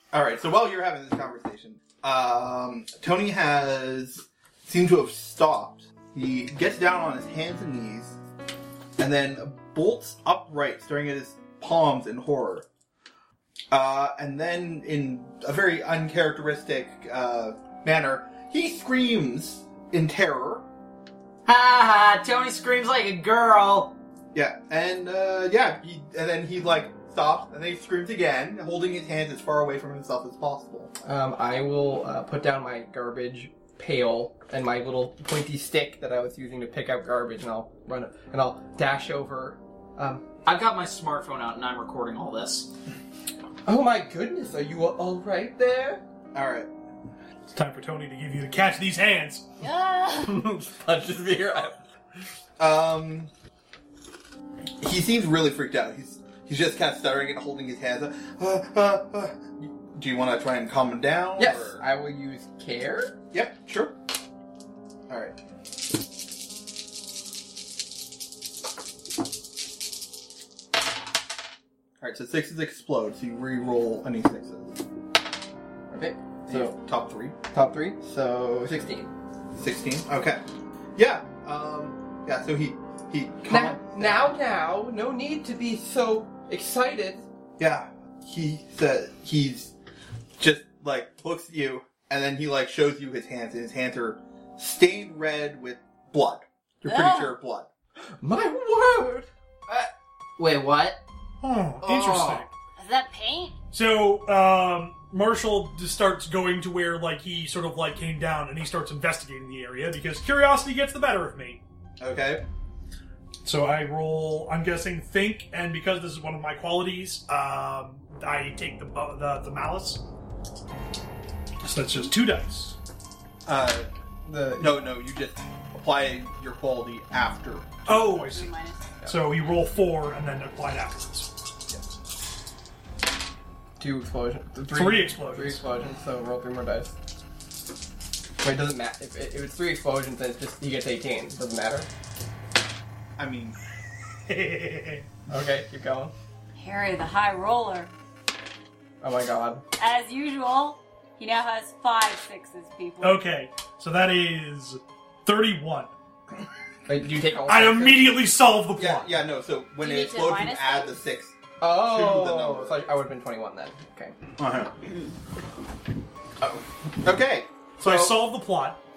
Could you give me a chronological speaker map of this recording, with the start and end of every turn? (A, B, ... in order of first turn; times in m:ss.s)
0:00.1-0:08.2 A
0:09.0-0:12.7 A
0:13.7-0:20.6 A
0:21.4-0:24.0 B
0:24.3-0:30.9 A
0:31.0-0:40.2 C
0:40.4-0:42.7 B
0:43.6-0:46.0 C
0:46.3-0:46.7 A
0:47.5-0:49.4 D
0:49.6-0:50.4 E
0:50.2-0:51.8 C
0:52.6-0:53.3 A
0:54.8-1:01.8 A
1:01.4-1:03.2 C
1:03.3-1:04.0 A
1:05.1-1:05.4 A
1:12.0-1:14.8 A
1:15.9-1:16.7 C
1:16.4-1:17.3 A
1:17.5-1:19.1 C
1:19.5-1:20.4 A
1:21.0-1:24.3 A
1:23.5-1:27.2 C
1:27.6-1:29.7 A
1:30.4-1:37.7 A
1:36.8-1:37.4 E
1:38.2-1:39.3 C
1:39.7-1:41.0 B
1:41.4-1:42.5 D
1:41.8-1:42.4 B
1:42.8-1:43.5 E
1:43.7-1:51.6 D
1:52.0-1:52.4 A
1:53.4-2:00.0 D
2:01.6-2:02.8 D
2:03.4-2:03.9 A
2:04.2-2:04.8 C
2:04.5-2:07.9 A
2:07.8-2:08.5 D
2:07.9-2:08.9 E
2:09.0-2:11.3 D
2:13.8-2:16.9 C
2:14.7-2:15.6 D
2:18.4-2:21.9 C
2:23.2-2:23.6 A
2:24.3-2:25.0 D
2:25.3-2:26.1 C
2:26.6-2:27.9 E
2:29.0-2:29.6 C
2:29.8-2:33.2 E
2:33.0-2:35.9 D
2:36.8-2:38.2 C
2:37.4-2:39.1 D
2:38.8-2:42.8 A
2:39.8-2:41.0 E
2:41.6-2:44.1 C
2:44.4-2:44.7 A
2:46.4-2:48.2 A
2:47.8-2:48.8 D